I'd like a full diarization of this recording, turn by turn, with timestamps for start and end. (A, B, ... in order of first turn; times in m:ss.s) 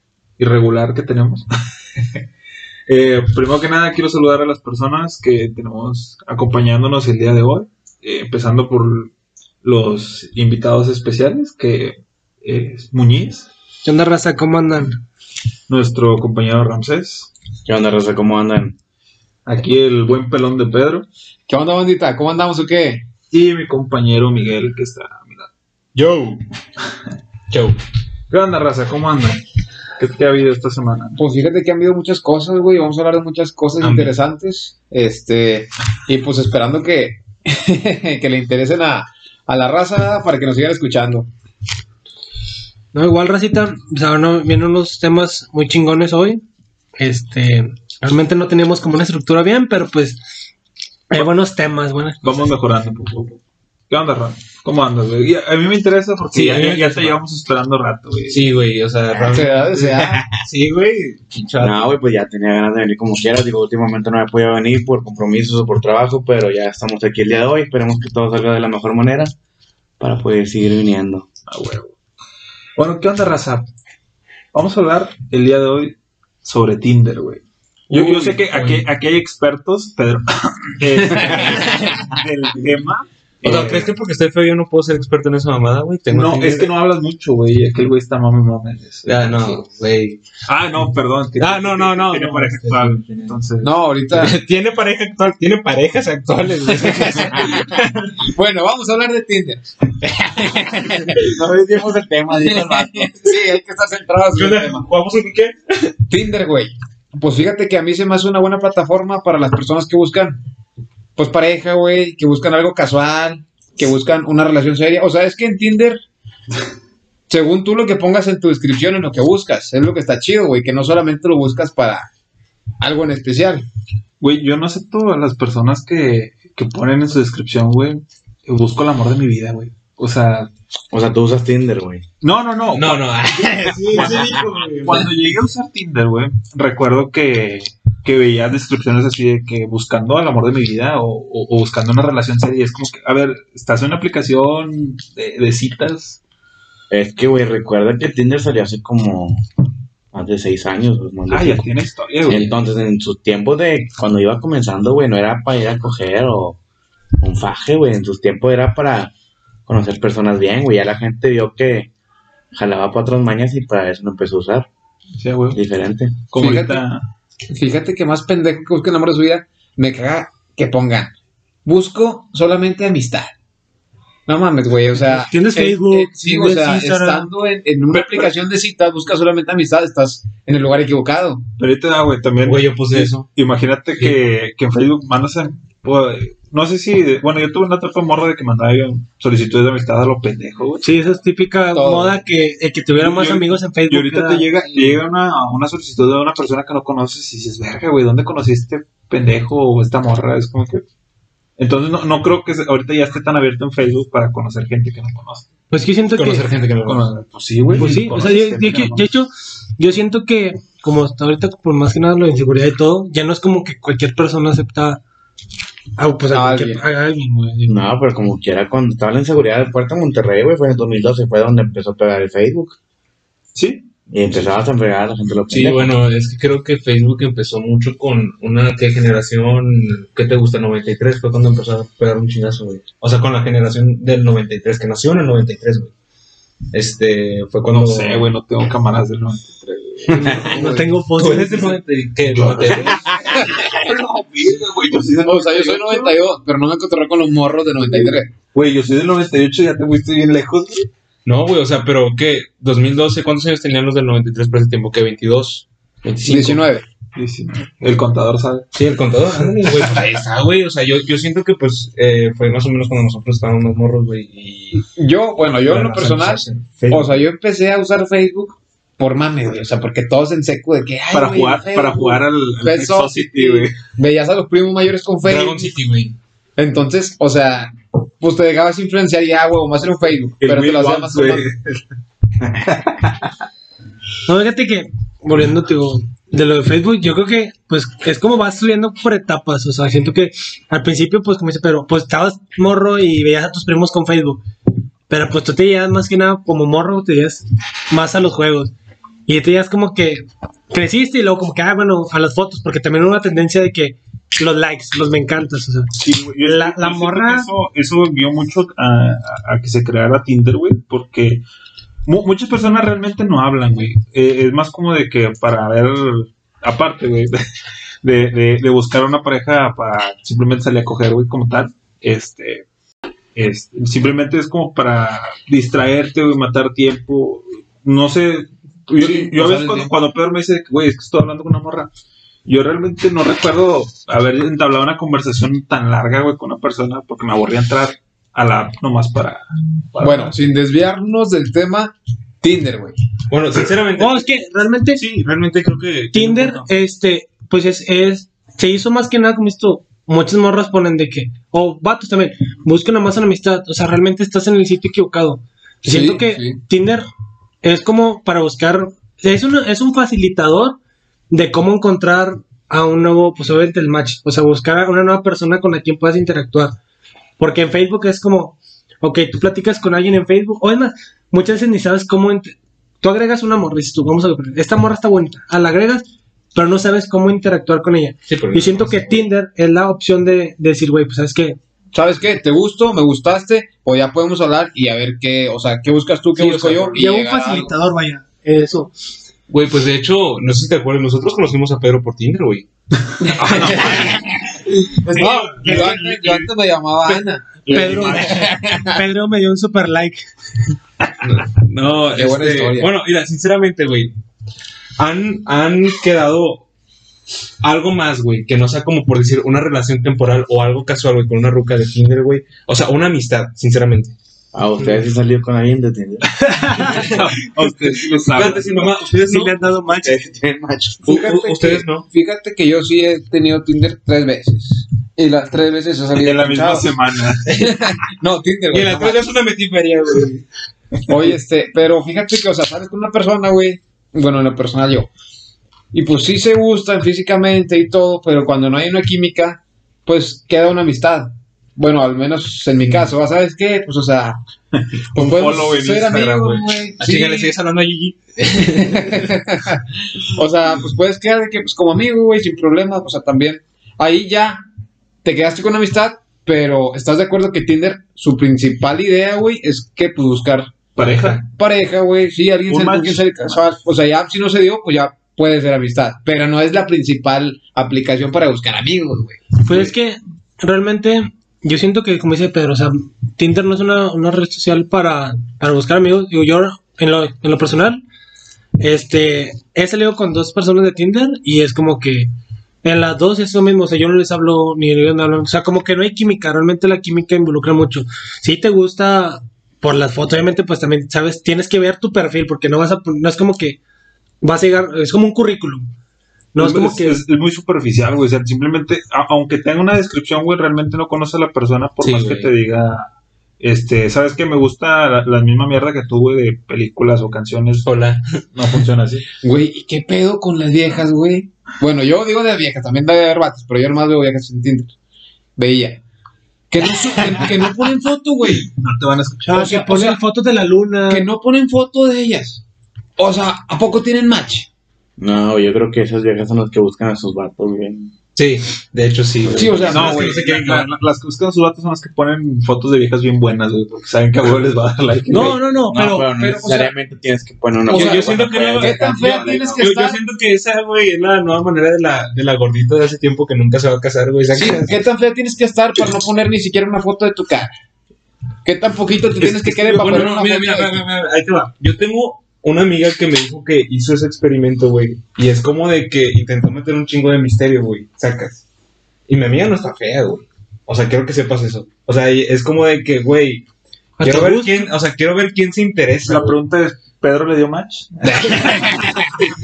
0:00.4-0:01.5 A
0:02.9-0:09.1 A
0:09.6-0:13.5 A
0:13.8-0:15.0 B
0:15.7-0:17.3 A
0:17.7-0:18.8 C
0:19.5-0:21.1 A
0:21.5-0:23.0 D
0:23.3-0:25.5 A
0:26.0-0:26.4 E
0:27.5-0:27.8 E
0:28.3-0:29.4 A
0:30.0-0:31.2 A
0:31.2-0:41.3 D
0:33.8-0:34.2 E
0:42.9-0:46.4 B
0:47.0-0:50.2 B
0:51.1-0:52.5 B
0:52.2-0:58.5 A
0:56.3-0:57.2 E
0:58.3-1:02.0 E
0:59.2-1:00.3 D
1:01.6-1:09.3 C
1:10.0-1:11.3 C
1:11.5-1:11.9 A
1:12.8-1:13.7 A
1:14.5-1:23.9 A
1:17.9-1:18.8 E
1:23.4-1:26.7 E
1:26.1-1:29.6 A
1:29.1-1:30.2 E
1:30.5-1:33.7 A
1:31.4-1:33.4 E
1:33.6-1:34.4 D
1:34.1-1:38.1 E
1:37.0-1:41.4 D
1:41.1-1:43.4 E
1:42.0-1:44.9 D
1:44.3-1:45.9 E
1:46.1-1:50.4 D
1:51.2-1:56.0 D
1:57.3-2:02.1 D
2:02.8-2:03.6 D
2:04.2-2:10.5 A
2:10.9-2:12.0 C
2:12.2-2:13.2 A
2:12.7-2:15.1 E
2:13.9-2:26.2 A
2:26.9-2:29.4 C
2:30.1-2:31.7 C
2:31.3-2:32.5 A
2:32.3-2:36.6 C
2:37.2-2:39.1 C
2:39.7-2:41.9 C
2:42.5-2:44.7 C
2:45.2-2:45.6 A
2:45.5-2:46.2 C
2:46.3-2:47.0 A
2:46.4-2:46.8 D
2:47.5-2:51.1 D
2:51.6-2:53.3 D
2:54.3-3:01.4 D
2:55.0-2:57.3 B
2:57.9-2:58.3 A
3:01.6-3:10.8 A
3:02.4-3:03.3 E
3:10.8-3:15.0 B
3:11.7-3:12.2 D
3:13.0-3:20.8 A
3:21.6-3:25.5 A
3:25.7-3:26.5 B
3:26.1-3:27.1 E
3:26.8-3:29.1 A
3:27.7-3:28.3 E
3:27.8-3:35.0 B
3:36.0-3:37.8 B
3:36.3-3:36.8 D
3:37.7-3:42.8 C
3:43.6-3:44.3 A
3:44.1-3:46.0 C
3:45.5-3:55.9 E
3:56.7-3:58.3 E
3:57.7-4:00.6 A
4:00.1-4:00.6 E
4:00.3-4:00.9 D
4:00.4-4:01.8 B
4:01.1-4:03.1 E
4:02.3-4:06.2 A
4:05.2-4:08.3 D
4:07.9-4:10.9 A
4:11.2-4:16.6 E
4:16.2-4:16.8 D
4:17.2-4:18.7 A
4:18.7-4:24.8 E
4:24.8-4:35.7 D
4:25.7-4:27.2 E
4:31.1-4:33.8 A
4:35.2-4:36.2 E
4:36.6-4:41.5 D
4:40.4-4:41.8 A
4:44.3-4:54.4 B
4:55.1-4:58.7 B
4:59.3-5:07.5 B
5:06.0-5:11.4 A
5:12.1-5:17.4 A
5:18.0-5:22.7 A
5:23.4-5:31.9 A
5:29.0-5:29.9 D
5:32.5-5:40.4 A
5:40.0-5:43.0 D
5:43.3-5:44.3 E
5:44.0-5:45.0 B
5:44.9-5:46.7 E
5:46.1-5:57.1 B
5:55.9-5:56.6 D
5:57.6-6:00.8 B
6:01.3-6:06.8 B
6:07.4-6:21.6 B
6:18.3-6:19.3 E
6:21.9-6:27.7 D
6:26.4-6:27.0 E
6:27.0-6:28.9 B
6:29.5-6:32.7 E
6:33.1-6:34.2 A
6:33.3-6:34.2 D
6:35.0-6:39.0 D
6:35.2-6:36.5 A
6:35.2-6:36.0 B
6:37.7-6:38.4 A
6:37.7-6:40.2 B
6:41.2-6:44.1 E
6:42.1-6:43.0 D
6:45.0-6:46.7 E
6:47.6-6:54.1 E
6:54.5-6:56.3 C
6:56.6-6:57.0 B
6:56.8-6:58.9 A
6:56.9-6:57.2 E
6:58.3-7:00.3 E
6:59.1-7:00.3 B
7:00.3-7:01.2 C
7:01.0-7:02.1 E
7:01.1-7:06.9 D
7:06.2-7:07.5 A
7:07.5-7:09.3 D
7:08.7-7:10.4 E
7:11.1-7:15.1 D
7:15.9-7:24.4 D
7:24.7-7:26.7 A
7:25.2-7:27.5 D
7:27.0-7:29.3 E
7:28.7-7:34.6 D
7:35.2-7:40.7 D
7:41.0-7:41.4 A
7:41.0-7:41.4 E
7:41.5-7:49.6 D
7:42.7-7:43.3 A
7:49.6-7:58.0 B
7:58.8-8:02.3 B
8:02.8-8:13.8 B
8:14.4-8:15.9 B
8:16.5-8:17.2 B
8:16.6-8:23.1 A
8:22.0-8:22.5 E
8:23.6-8:27.9 A
8:27.8-8:28.8 E
8:28.5-8:29.3 A
8:29.4-8:34.9 D
8:35.6-8:36.0 D
8:36.7-8:38.7 D
8:38.7-8:39.7 A
8:39.5-8:41.3 B
8:39.5-8:40.2 D
8:41.1-8:42.6 D
8:43.2-8:44.7 D
8:45.2-8:48.1 C
8:48.4-8:50.9 E
8:49.4-8:50.4 D
8:49.8-8:55.6 A
8:55.3-8:56.4 B
8:55.9-8:59.0 C
8:56.3-8:56.9 D
8:57.9-9:05.0 E
8:57.9-9:00.2 D
8:58.3-8:59.9 A
9:04.5-9:07.7 D
9:08.6-9:11.0 D
9:09.4-9:10.3 A
9:10.0-9:18.6 E
9:19.3-9:23.6 E
9:24.2-9:24.9 B
9:24.2-9:26.6 E
9:26.3-9:29.0 A
9:28.6-9:29.1 D